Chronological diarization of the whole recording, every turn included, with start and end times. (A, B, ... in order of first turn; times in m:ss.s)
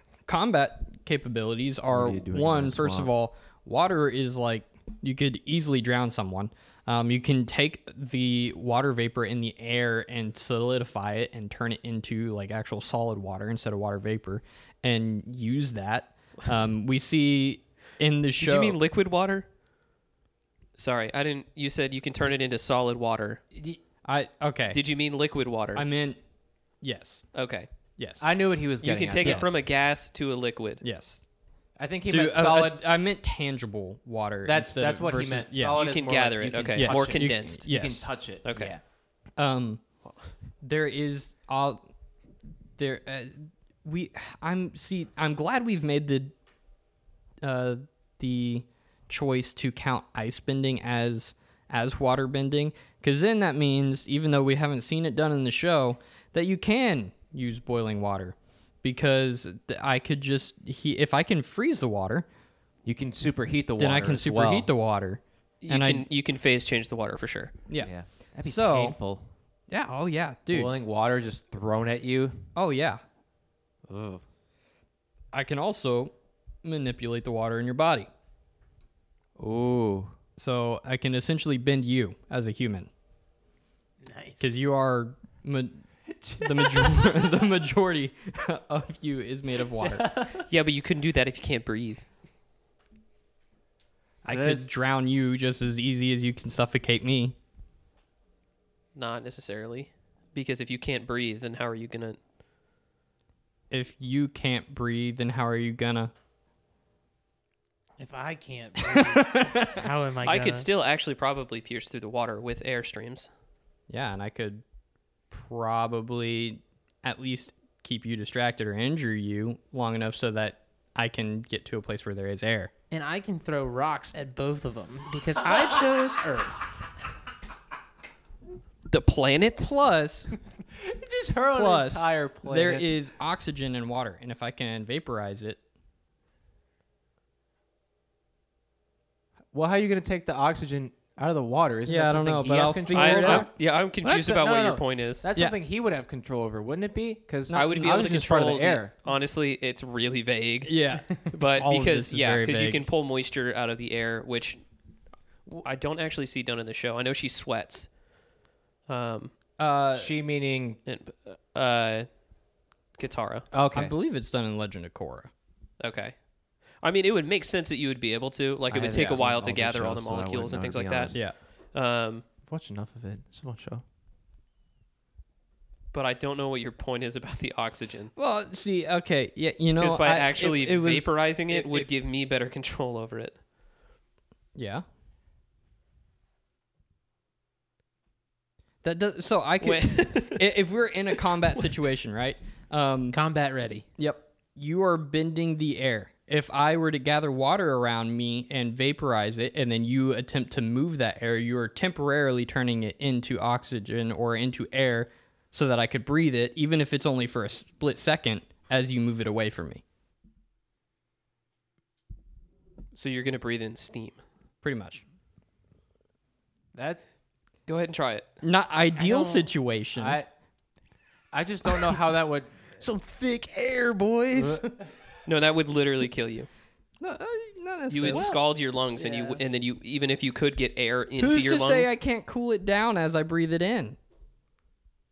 0:00.3-0:18.8 A
0:01.9-0:03.1 B
0:18.4-0:19.5 C
0:20.8-0:23.4 C
0:23.5-0:23.8 B
0:24.0-0:24.8 A
0:24.7-0:25.9 C
0:25.8-0:26.2 A
0:26.8-0:27.3 A
0:27.3-0:27.7 C
0:28.0-0:28.3 A
0:28.2-0:29.6 B
0:28.8-0:30.8 C
0:29.2-0:29.5 A
0:30.8-0:31.2 A
0:31.8-0:32.8 B
0:32.1-0:35.8 A
0:34.4-0:38.8 B
0:35.7-0:37.7 C
0:36.8-0:38.1 A
0:38.4-0:38.8 C
0:39.4-0:39.8 A
0:40.6-0:41.8 A
0:42.8-0:46.3 A
0:47.4-1:02.3 A
1:02.8-1:04.7 B
1:03.8-1:06.1 A
1:05.6-1:07.5 C
1:07.7-1:09.0 A
1:07.8-1:09.2 B
1:09.7-1:10.7 A
1:10.5-1:12.4 B
1:12.6-1:13.0 A
1:13.9-1:14.2 B
1:15.3-1:18.1 A
1:19.4-1:20.1 B
1:20.4-1:22.9 A
1:24.0-1:24.5 D
1:24.4-1:30.0 A
1:26.2-1:27.2 B
1:29.7-1:30.5 B
1:30.5-1:32.1 C
1:34.2-1:34.7 B
1:34.2-1:37.4 A
1:39.0-1:42.2 C
1:43.7-1:46.1 A
1:48.0-1:50.7 D
1:48.9-1:49.9 A
1:50.2-1:53.3 C
1:53.9-1:54.6 A
1:55.3-2:02.7 A
2:02.9-2:06.6 D
2:08.9-2:09.7 C
2:09.6-2:10.3 A
2:10.7-2:12.9 B
2:11.6-2:15.6 A
2:19.5-2:28.9 B
2:21.9-2:23.5 A
2:22.9-2:25.3 C
2:27.5-2:28.0 A
2:27.5-2:34.6 C
2:30.7-2:32.9 A
2:35.6-2:37.9 C
2:38.9-2:39.3 C
2:39.6-2:40.1 A
2:39.9-2:40.8 B
2:40.9-2:42.1 C
2:43.0-2:43.5 C
2:43.5-2:43.9 B
2:43.7-2:45.3 A
2:45.8-2:46.2 C
2:46.8-2:52.2 C
2:48.7-2:51.2 B
2:48.9-2:49.2 A
2:52.4-2:53.8 B
2:55.9-2:58.1 C
2:58.2-3:01.9 A
2:59.8-3:03.4 C
3:04.6-3:04.8 A
3:08.8-3:13.2 A
3:09.6-3:10.5 C
3:11.2-3:11.7 C
3:13.1-3:13.9 D
3:14.0-3:29.8 A
3:32.9-3:34.2 C
3:34.6-3:35.0 A
3:36.7-3:37.0 B
3:37.7-3:38.3 C
3:38.4-3:40.2 A
3:39.0-3:39.5 D
3:40.0-3:40.3 B
3:41.3-3:42.5 B
3:42.8-3:44.8 D
3:44.4-3:44.7 B
3:45.2-3:46.5 C
3:47.0-3:48.4 A
3:47.9-3:52.0 C
3:48.0-3:48.3 B
3:49.0-3:49.4 B
3:51.2-3:54.0 A